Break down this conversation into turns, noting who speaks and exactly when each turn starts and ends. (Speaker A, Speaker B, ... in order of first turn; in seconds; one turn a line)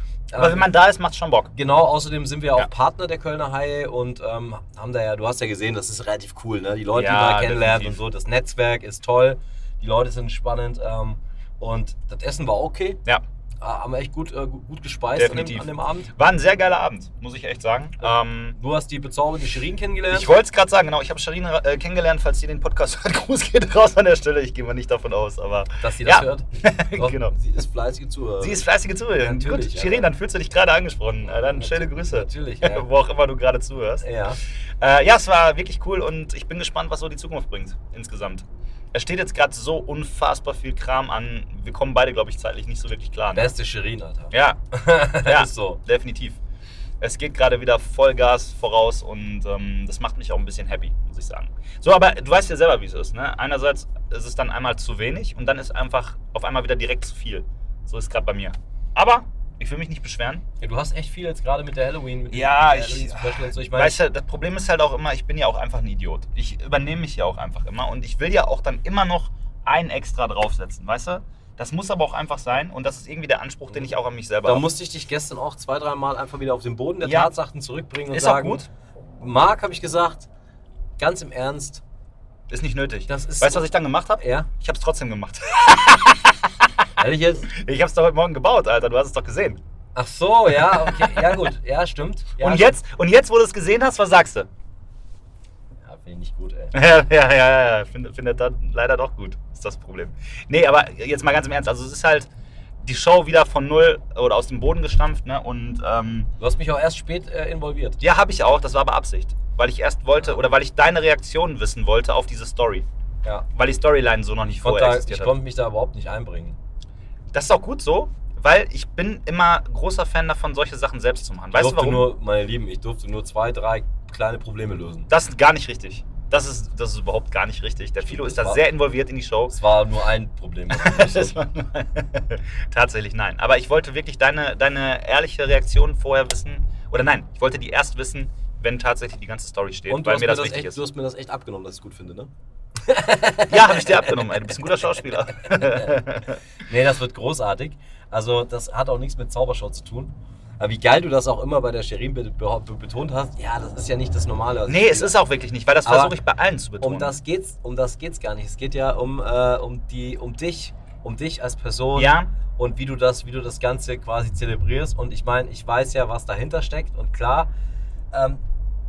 Speaker A: 0.3-0.7
Speaker B: 0.4-1.5
Speaker A: 1.6-13.0
Speaker B: 6.9-8.0
Speaker A: 13.6-16.1
Speaker B: 15.2-18.6
Speaker A: 18.0-20.3
Speaker B: 20.1-27.4
Speaker A: 25.8-28.7
Speaker B: 28.4-34.0
Speaker A: 29.2-30.1
Speaker A: 31.3-32.9
Speaker A: 34.0-34.4
Speaker B: 34.8-43.5
Speaker A: 43.4-45.8
Speaker B: 44.3-44.6
Speaker B: 45.2-46.4
Speaker B: 47.0-60.5
Speaker A: 60.6-64.0
Speaker B: 62.3-74.6
Speaker A: 74.5-78.7
Speaker B: 77.0-77.3
Speaker B: 78.1-78.7
Speaker A: 79.2-80.3
Speaker A: 81.0-81.8
Speaker B: 82.5-86.8
Speaker A: 83.1-83.7
Speaker A: 84.2-84.5
Speaker A: 87.0-87.5
Speaker B: 87.5-89.6
Speaker A: 90.0-92.8
Speaker B: 90.8-91.4
Speaker B: 92.4-94.5
Speaker A: 95.9-96.8
Speaker B: 96.7-102.3
Speaker B: 102.8-106.3
Speaker A: 106.4-108.0
Speaker B: 108.0-112.9
Speaker B: 113.5-115.3
Speaker A: 114.6-116.6
Speaker B: 117.3-122.1
Speaker A: 121.5-125.1
Speaker B: 125.1-129.5
Speaker A: 128.0-128.6
Speaker A: 129.5-131.4
Speaker B: 130.7-140.8
Speaker A: 139.9-142.3
Speaker A: 142.8-144.2
Speaker B: 143.5-146.4
Speaker A: 145.6-146.0
Speaker A: 146.7-155.2
Speaker B: 154.7-157.2
Speaker A: 155.8-156.1
Speaker A: 156.8-167.5
Speaker B: 161.9-162.3
Speaker A: 168.1-168.4